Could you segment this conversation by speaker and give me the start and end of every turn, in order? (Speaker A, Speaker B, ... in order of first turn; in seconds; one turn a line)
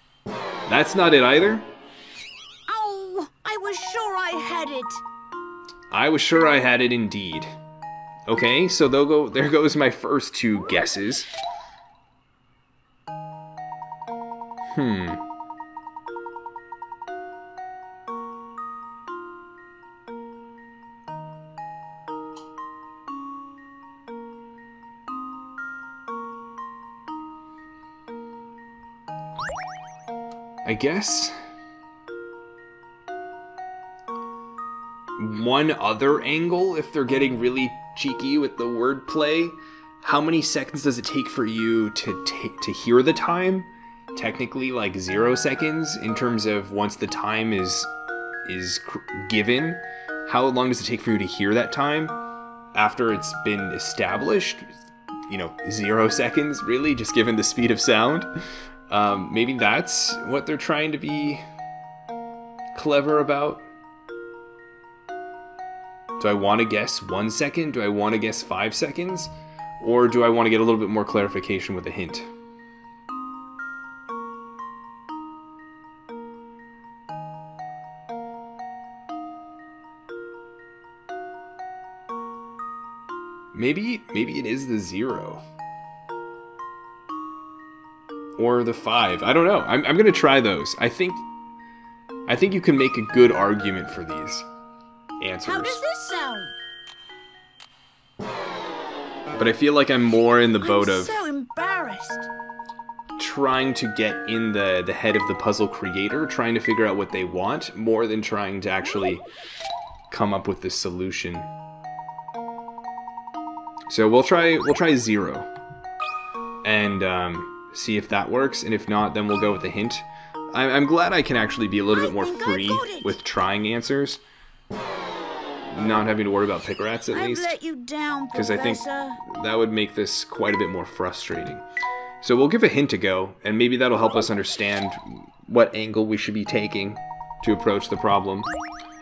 Speaker A: 0.7-1.7
Speaker B: 2.7-5.0
Speaker A: 5.9-7.5
Speaker A: 8.3-11.3
Speaker A: 14.7-15.2
Speaker A: 30.6-31.3
Speaker A: 35.2-47.9
Speaker A: 48.5-52.2
Speaker A: 52.7-54.7
Speaker A: 55.3-58.3
Speaker A: 58.9-61.4
Speaker A: 62.8-63.6
Speaker A: 66.2-72.3
Speaker A: 83.5-85.4
Speaker A: 88.4-91.3
Speaker A: 92.3-94.5
Speaker A: 95.2-95.8
Speaker B: 95.5-96.5
Speaker A: 99.3-101.2
Speaker B: 100.6-102.3
Speaker A: 103.2-109.3
Speaker A: 110.1-111.5
Speaker A: 113.9-115.5
Speaker A: 116.6-124.2
Speaker B: 121.9-123.2
Speaker A: 125.7-127.5
Speaker B: 127.1-129.2
Speaker A: 128.3-131.6
Speaker A: 132.2-138.5